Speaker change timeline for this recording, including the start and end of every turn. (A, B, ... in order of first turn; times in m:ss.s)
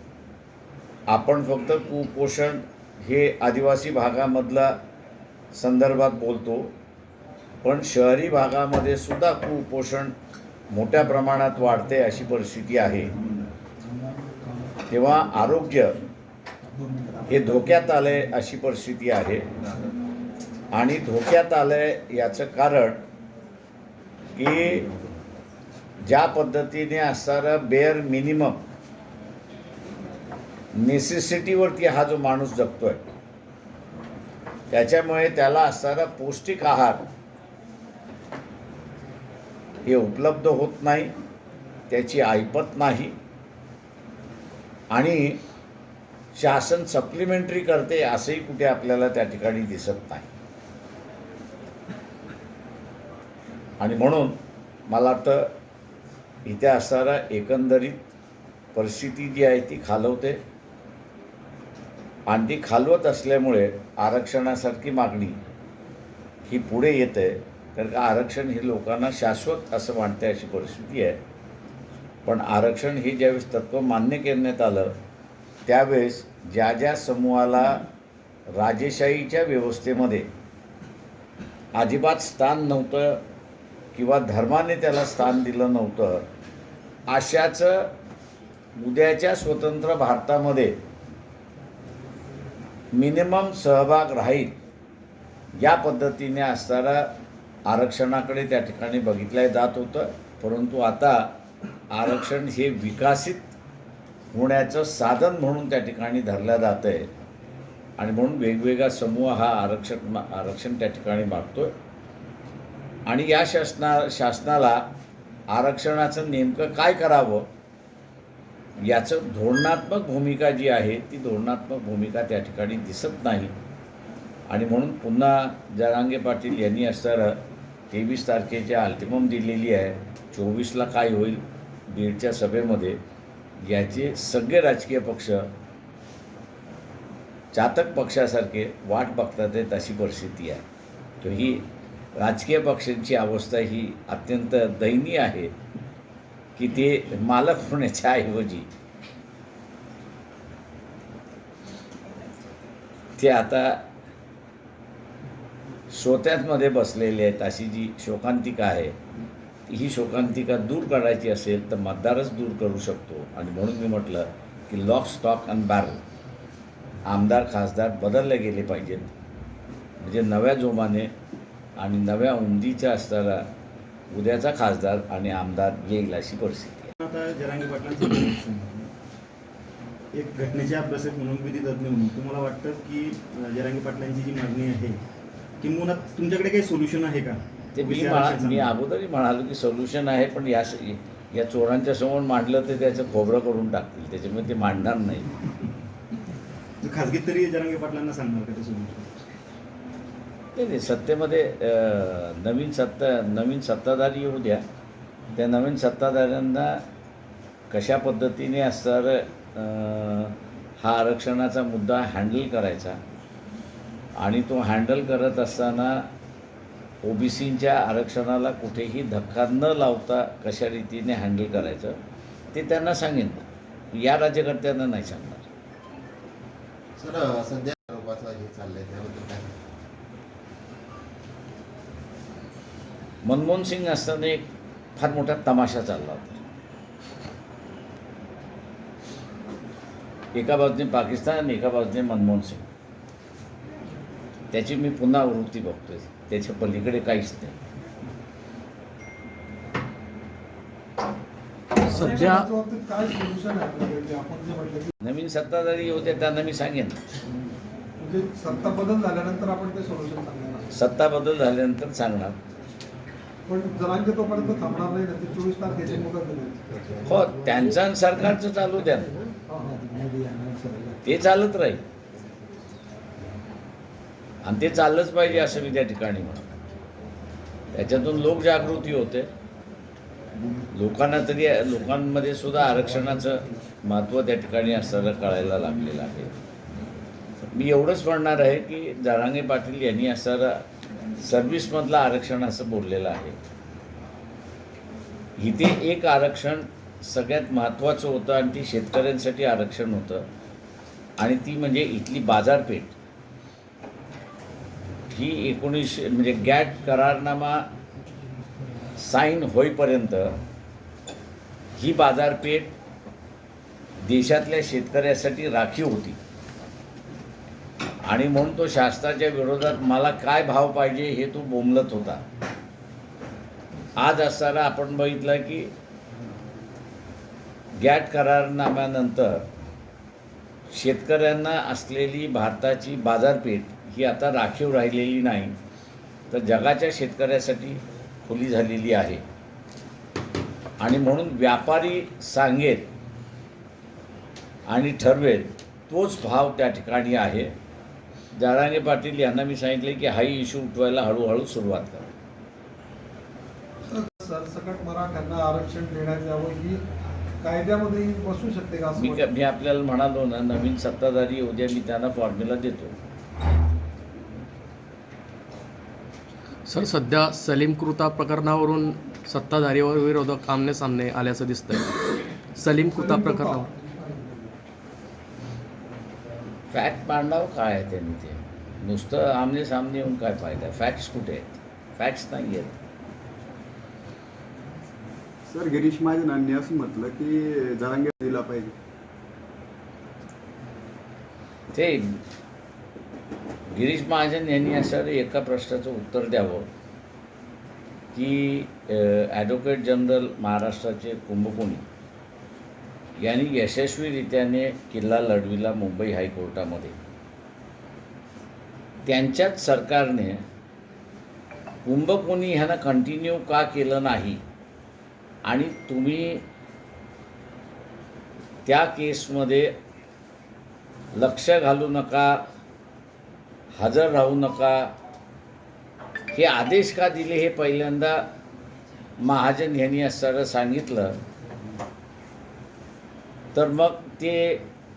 0:01.1-0:04.8 A
0:05.5-0:06.7 A
0:07.6-0:10.1 A
0:10.7-0:13.1 A
0:14.9-0:16.0 A
0:17.3-0:19.5 A
0:20.7-0:23.0 A
0:24.4-0:24.9 A
0:26.0-0:28.6 A
0:30.7-0:33.0 A
0:34.7-0:37.0 A
0:39.8-0:41.1 A
0:41.9-0:43.2 A
0:44.9-0:45.4 A
0:46.4-0:50.3 A
0:53.8-0:55.5 A
0:56.4-0:58.1 A
0:58.8-1:00.4 A
1:02.3-1:05.4 A
1:06.5-1:11.2 A
1:12.3-1:15.0 A
1:15.7-1:17.8 A
1:18.5-1:20.3 A
1:21.8-1:23.2 A
1:23.9-1:26.3 A
1:27.1-1:27.9 A
1:28.8-1:30.8 A
1:32.9-1:34.6 A
1:35.6-1:37.1 A
1:37.7-1:41.4 A
1:41.9-1:43.5 A
1:44.3-1:47.1 A
1:48.0-1:51.7 A
1:53.1-1:54.9 A
1:55.5-1:57.5 A
1:58.8-2:03.5 A
2:04.5-2:13.0 A
2:13.6-2:15.5 A
2:17.5-2:20.6 A
2:21.2-2:25.5 A
2:26.6-2:28.7 A
2:33.2-2:33.8 A
2:35.9-2:39.0 A
2:39.7-2:46.0 A
2:47.1-2:49.1 A
2:50.0-2:51.1 A
2:51.8-2:53.5 A
2:54.1-2:56.9 A
2:57.0-2:58.9 B
3:00.1-3:05.0 B
3:05.6-3:08.8 B
3:07.7-3:15.3 A
3:16.8-3:19.2 B
3:20.6-3:24.7 A
3:25.4-3:26.8 A
3:27.7-3:33.0 A
3:34.2-3:36.1 A
3:37.0-3:42.0 A
3:42.5-3:45.4 A
3:47.0-3:49.6 C
3:53.2-3:56.4 A
4:00.3-4:02.6 A
4:04.5-4:07.6 A
4:11.8-4:12.5 D
4:11.8-4:14.9 E
4:15.0-4:17.0 A
4:18.0-4:20.7 E
4:20.7-4:22.4 A
4:23.5-4:26.9 E
4:27.0-4:29.1 A
4:29.5-4:31.0 E
4:31.0-4:31.8 A
4:34.4-4:36.6 A
4:37.7-4:39.3 A
4:40.6-4:46.3 A
4:47.5-4:50.6 A
4:51.2-4:53.4 A
4:55.4-5:00.3 A
5:01.2-5:03.0 A
5:05.1-5:07.7 A
5:09.0-5:10.4 A
5:11.8-5:12.8 A
5:14.0-5:16.2 A
5:18.0-5:22.2 A
5:24.0-5:25.7 A
5:27.8-5:29.5 A
5:30.7-5:35.6 A
5:36.3-5:39.2 A
5:40.8-5:42.9 A
5:44.7-5:47.5 A
5:48.4-5:52.1 A
5:53.9-5:56.8 E
5:57.4-5:59.2 E
5:59.0-6:03.0 A
6:06.7-6:11.9 D
6:12.6-6:13.6 D
6:12.9-6:14.5 E
6:16.7-6:22.8 A
6:25.5-6:28.8 F
6:31.7-6:32.2 A
6:33.7-6:36.7 A
6:38.1-6:41.8 A
6:43.2-6:47.0 A
6:49.1-6:50.4 A
6:51.8-6:54.4 A
6:55.5-6:56.4 A
6:58.7-6:59.7 A
7:01.2-7:02.4 A
7:03.8-7:04.9 A
7:06.3-7:08.2 A
7:09.2-7:11.2 A
7:13.5-7:14.7 A